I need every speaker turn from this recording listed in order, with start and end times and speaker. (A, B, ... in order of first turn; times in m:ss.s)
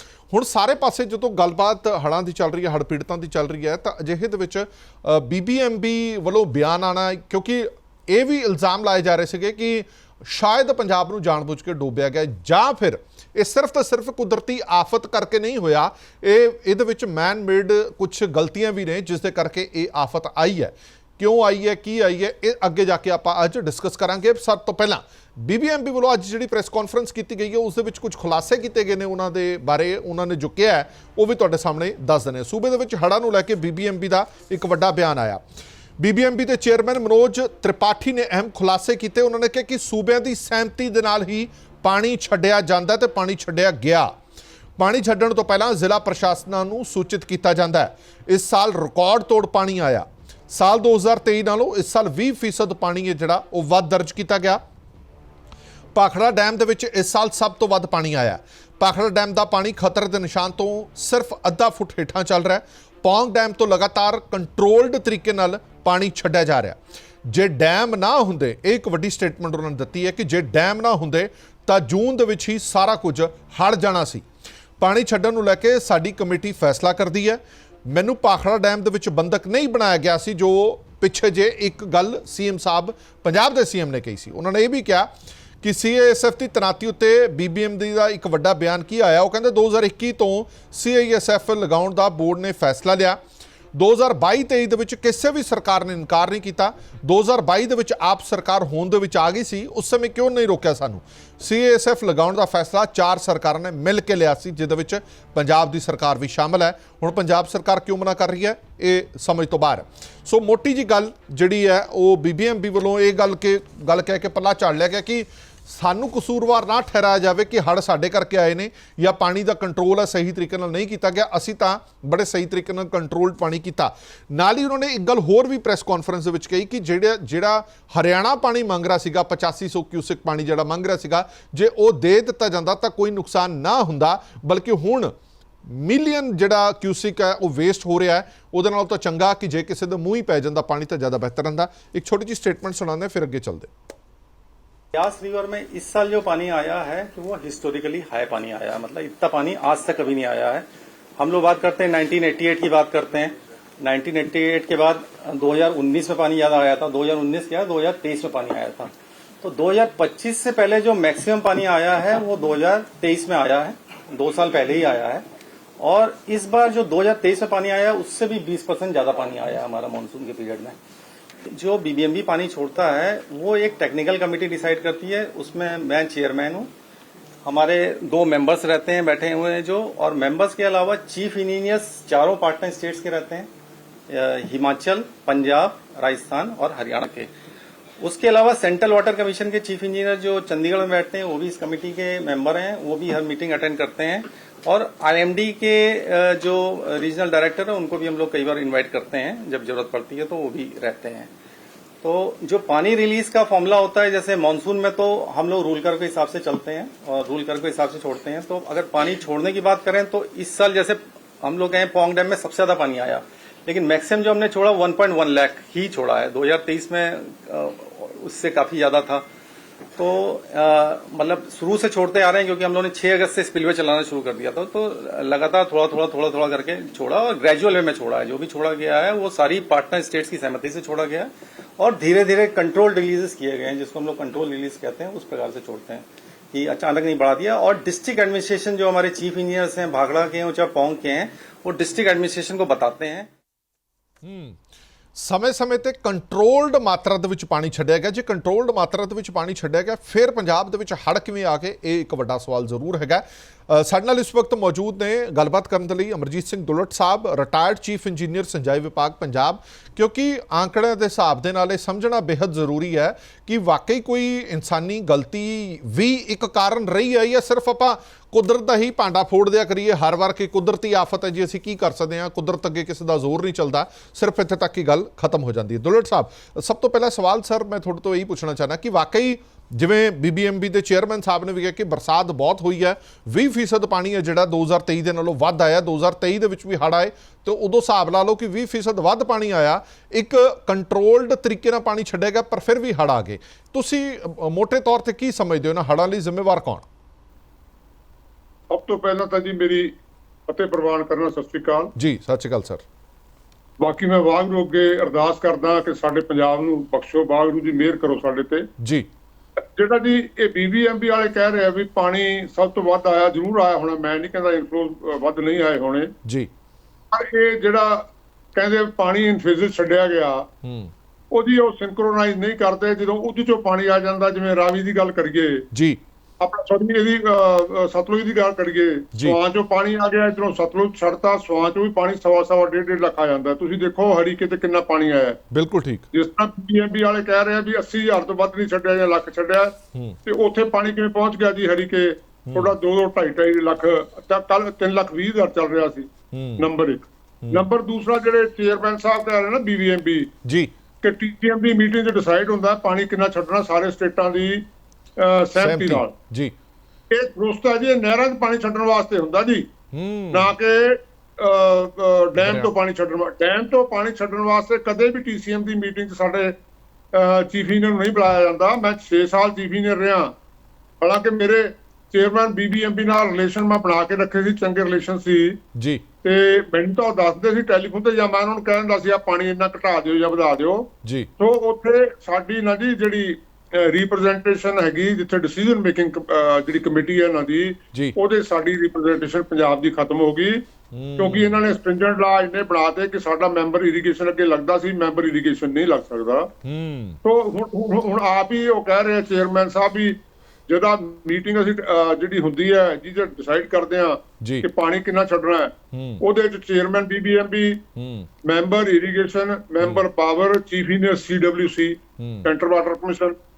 0:00.3-0:35.4 A
0:36.0-0:44.1 A
0:44.8-0:54.6 A
0:56.0-1:14.2 A
1:14.8-1:25.1 A
1:25.6-1:33.2 A
1:33.7-2:15.1 A
2:15.7-2:23.7 A
2:24.9-2:30.6 B
2:31.2-2:38.9 B
2:39.4-2:45.2 B
2:45.8-2:50.8 B
2:51.5-2:56.7 B
2:57.4-3:03.5 B
3:04.1-3:07.3 B
3:08.0-3:21.3 B
3:22.0-3:39.2 B
3:40.0-4:03.3 B
4:04.2-4:04.6 A
4:05.2-4:56.8 A
4:58.7-4:59.9 C
5:00.5-5:01.9 C
5:02.0-5:02.8 A
5:03.8-5:08.7 C
5:08.8-5:09.1 A
5:09.8-5:16.1 C
5:17.1-5:20.5 C
5:20.6-5:20.9 A
5:21.3-5:25.7 C
5:25.7-5:26.0 A
5:26.4-5:35.4 C
5:35.5-5:36.1 A
5:36.1-5:50.3 C
5:42.5-5:42.7 A
5:46.3-5:46.7 A
5:50.4-5:50.7 A
5:51.0-5:54.6 C
5:55.2-5:56.1 C
5:55.6-5:56.5 A
5:57.1-5:59.7 C
5:59.9-6:00.5 A
6:00.3-6:06.6 C
6:02.4-6:02.7 A
6:07.1-6:10.3 C
6:11.0-6:15.6 C
6:15.8-6:16.0 A
6:16.2-6:30.6 C
6:21.0-6:21.3 A
6:30.9-6:31.6 A
6:31.2-6:36.5 C
6:36.6-6:37.2 A
6:37.2-6:47.8 C
6:45.9-6:46.2 A
6:48.0-6:48.3 A
6:48.4-6:53.4 C
6:52.2-6:52.5 A